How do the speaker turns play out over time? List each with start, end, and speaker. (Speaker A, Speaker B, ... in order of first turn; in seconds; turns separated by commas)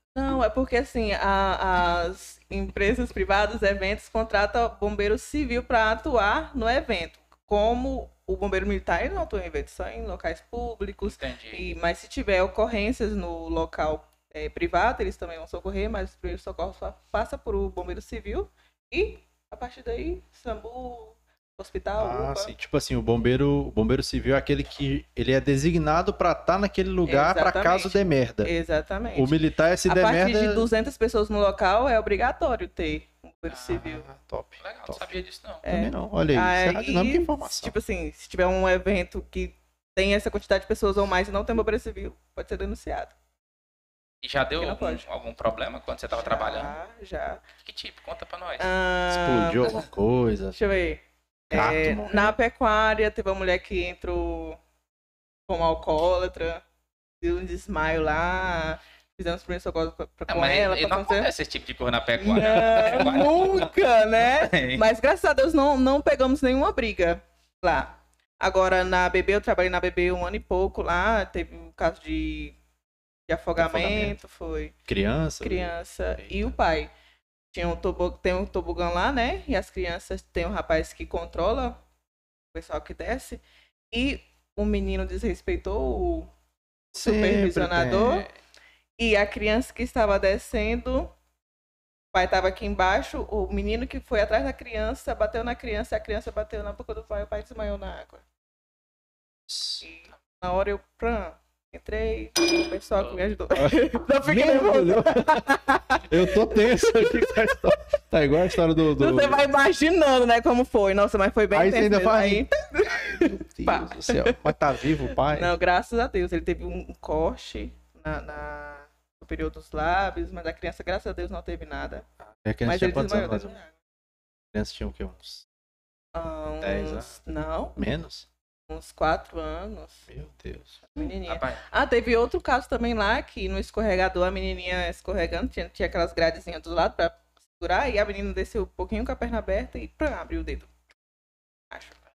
Speaker A: 0.1-22.5, Speaker B: 11.0-11.6, Speaker C: 22.0-28.5, Speaker A: 27.0-34.0, Speaker C: 29.1-30.7, Speaker B: 33.5-33.8, Speaker C: 33.8-37.7, Speaker B: 34.6-35.6, Speaker A: 35.6-43.1, Speaker B: 44.2-46.7, Speaker A: 44.6-45.0, Speaker A: 46.1-47.4, Speaker B: 47.6-48.7, Speaker A: 48.6-49.7, Speaker C: 49.1-50.6, Speaker A: 50.5-54.6, Speaker C: 51.5-52.4, Speaker A: 55.5-56.6, Speaker A: 57.2-61.3, Speaker B: 60.3-64.8, Speaker A: 62.2-72.5, Speaker A: 73.3-74.8, Speaker C: 73.5-74.2, Speaker C: 74.9-76.5, Speaker A: 75.4-76.9, Speaker A: 77.5-81.8, Speaker A: 82.5-86.3, Speaker A: 86.9-88.2, Speaker C: 86.9-88.3, Speaker A: 89.0-91.1, Speaker A: 92.1-98.2, Speaker C: 99.5-99.8, Speaker A: 99.8-107.7, Speaker B: 103.0-103.2, Speaker C: 103.6-105.4, Speaker C: 106.1-109.5, Speaker A: 108.9-114.5, Speaker C: 111.5-115.5, Speaker A: 115.1-122.0, Speaker C: 122.4-123.6, Speaker A: 122.6-123.7, Speaker C: 124.5-125.5, Speaker A: 126.1-127.8, Speaker C: 126.6-127.1, Speaker C: 127.8-128.3, Speaker A: 128.7-130.0, Speaker C: 130.1-130.8, Speaker A: 130.9-140.7, Speaker B: 131.0-131.6, Speaker A: 141.7-142.0